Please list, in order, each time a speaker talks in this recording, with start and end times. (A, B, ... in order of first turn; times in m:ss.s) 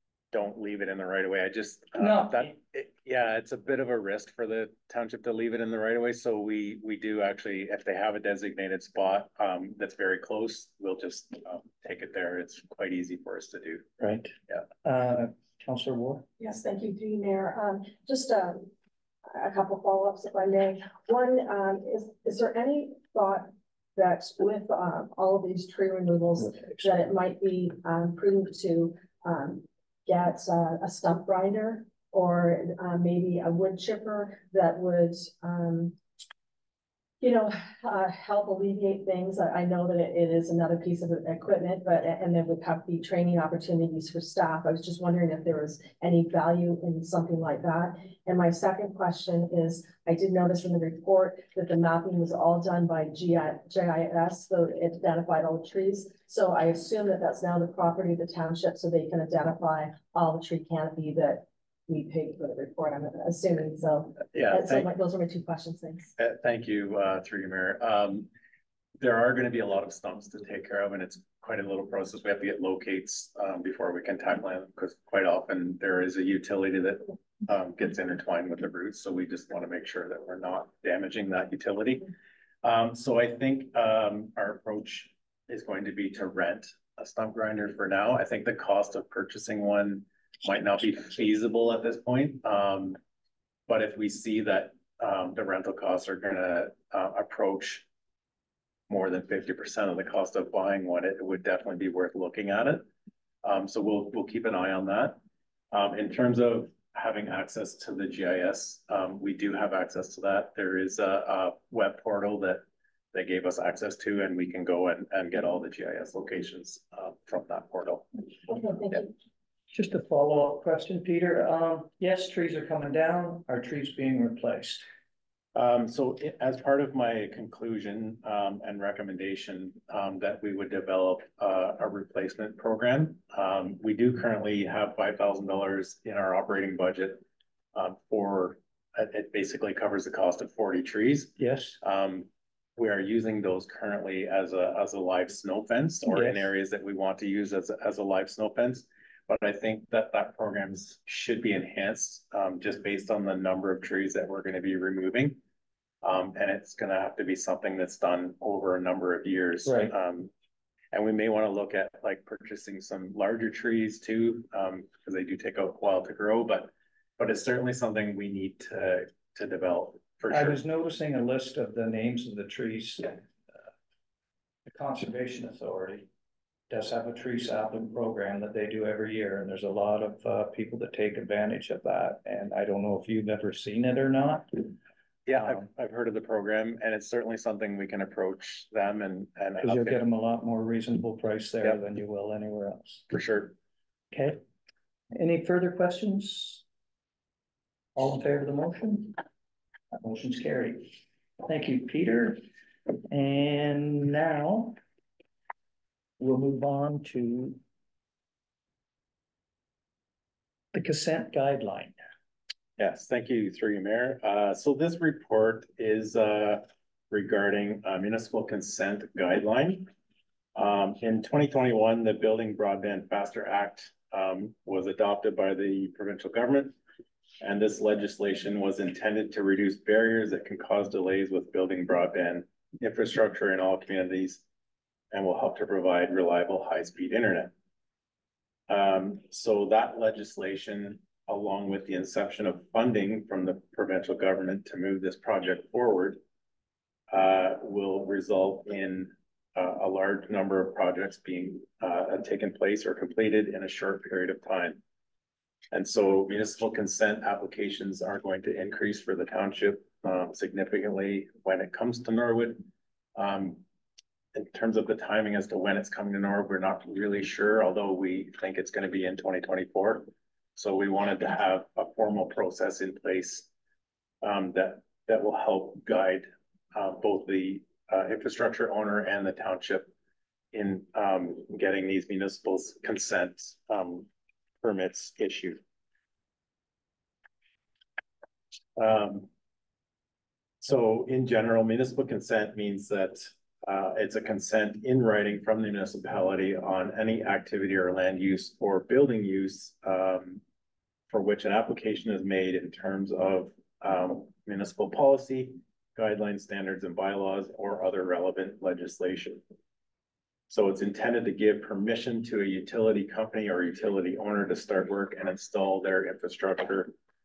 0:00.3-0:13.9 A
0:02.0-0:02.6 B
0:14.0-0:14.3 B
0:14.8-0:16.3 B
0:16.4-0:18.7 C
0:19.3-0:36.0 C
0:26.4-0:26.9 B
0:37.2-1:06.1 C
1:04.3-1:04.9 A
1:06.2-1:08.3 A
1:09.0-1:22.0 A
1:22.6-1:33.0 A
1:33.7-1:37.8 A
1:38.9-1:42.9 A
1:43.4-1:45.2 A
1:45.7-1:58.1 A
1:58.5-1:59.1 C
1:59.7-2:04.8 B
2:05.5-2:17.2 A
2:17.7-2:35.4 A
2:21.4-2:21.8 B
2:26.0-2:26.5 B
2:36.0-2:40.3 A
2:39.6-2:39.9 B
2:40.9-2:50.6 A
2:50.3-2:53.3 B
2:54.6-2:56.1 B
2:56.7-3:04.7 B
3:05.3-3:10.0 A
3:05.3-3:05.7 B
3:09.6-3:13.0 B
3:13.1-3:13.6 A
3:14.1-3:14.4 B
3:15.1-3:16.6 B
3:18.0-3:19.2 B
3:19.9-3:22.4 B
3:23.1-3:24.8 B
3:26.2-3:27.6 B
3:30.7-3:32.0 B
3:32.8-3:39.9 A
3:40.6-3:46.8 A
3:47.4-3:54.4 A
3:55.1-3:57.5 A
3:58.7-4:06.2 A
4:07.1-4:14.8 A
4:15.7-4:22.6 A
4:23.1-4:23.6 A
4:24.3-4:33.5 A
4:34.2-4:39.9 A
4:40.5-4:44.1 A
4:44.6-4:45.6 A
4:48.8-4:49.3 A
4:50.6-5:00.4 A
5:01.1-5:09.4 A
5:10.5-5:16.9 A